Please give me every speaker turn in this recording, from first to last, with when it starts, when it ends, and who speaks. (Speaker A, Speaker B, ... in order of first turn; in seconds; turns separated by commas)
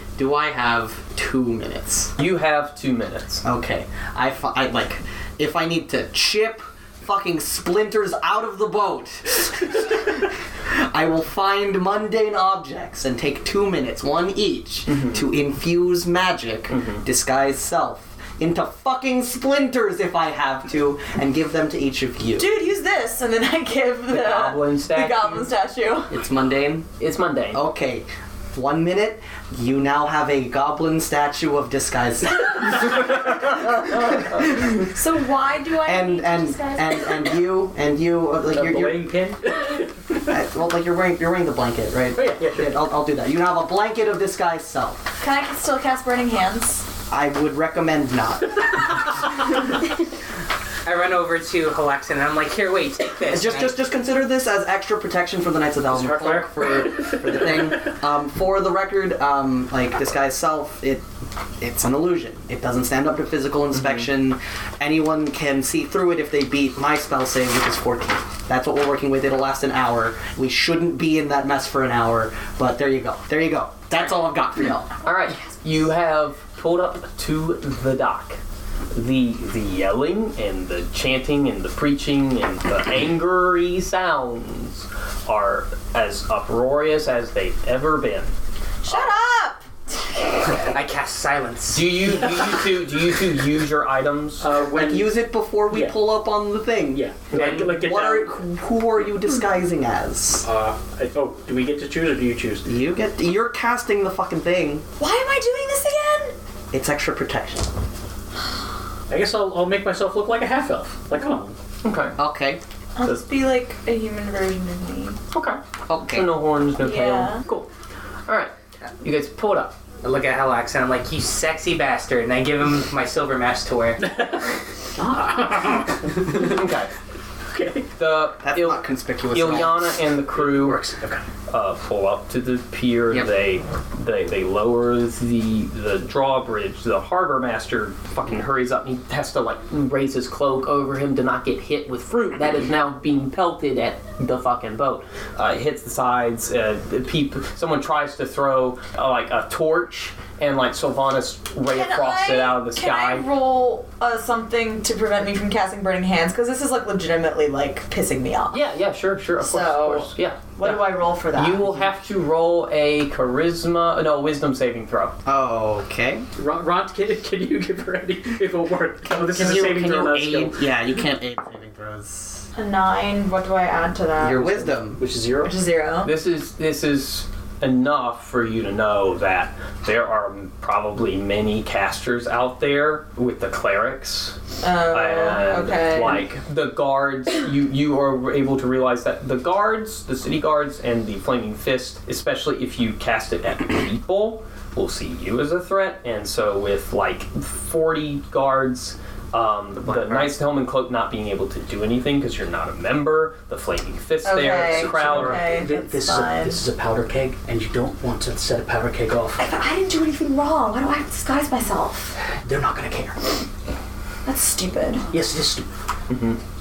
Speaker A: 0.2-2.1, Speaker B: 2.2-3.5, Speaker A: 3.4-22.5, Speaker B: 14.9-15.3, Speaker B: 16.7-17.0, Speaker C: 22.4-26.1, Speaker B: 24.1-25.5, Speaker A: 26.1-26.9, Speaker B: 27.0-27.6, Speaker A: 27.5-34.8, Speaker C: 34.5-37.2, Speaker A: 35.8-39.1, Speaker D: 38.5-40.0, Speaker A: 40.2-45.1, Speaker D: 42.2-42.8, Speaker C: 45.2-46.9, Speaker A: 47.1-48.8, Speaker E: 50.8-53.8, Speaker A: 53.3-61.1, Speaker D: 55.9-57.8, Speaker A: 61.6-74.9, Speaker B: 75.0-78.4, Speaker B: 78.9-88.3, Speaker C: 88.8-89.7, Speaker B: 88.9-89.1, Speaker E: 90.5-92.0, Speaker B: 91.7-94.5, Speaker D: 94.4-96.0, Speaker A: 94.7-100.5, Speaker D: 96.9-98.4, Speaker D: 100.4-102.7, Speaker A: 102.7-104.9, Speaker C: 105.0-106.3, Speaker A: 106.7-107.7, Speaker D: 109.1-111.6, Speaker B: 111.8-112.1, Speaker A: 112.2-112.6, Speaker C: 113.0-115.2, Speaker B: 115.3-117.7, Speaker A: 115.9-116.3, Speaker C: 116.8-117.4, Speaker B: 118.3-119.8, Speaker E: 120.0-124.0, Speaker D: 124.0-126.5, Speaker B: 126.3-126.9, Speaker D: 127.5-127.9, Speaker B: 128.0-130.8, Speaker A: 128.4-129.9, Speaker D: 130.3-131.2, Speaker B: 131.5-153.3, Speaker C: 151.7-158.6, Speaker B: 158.5-165.2, Speaker C: 159.4-161.9, Speaker A: 165.2-166.2, Speaker D: 166.4-170.7, Speaker A: 169.1-172.5, Speaker C: 172.6-174.5, Speaker A: 174.2-175.0, Speaker D: 174.4-175.6, Speaker C: 175.4-176.1, Speaker B: 176.0-184.4, Speaker C: 184.6-186.2, Speaker B: 184.9-205.4, Speaker C: 204.2-206.6, Speaker D: 204.7-209.4, Speaker C: 209.4-212.2, Speaker D: 212.2-213.3, Speaker C: 214.2-215.1, Speaker D: 215.1-215.7, Speaker B: 216.1-216.4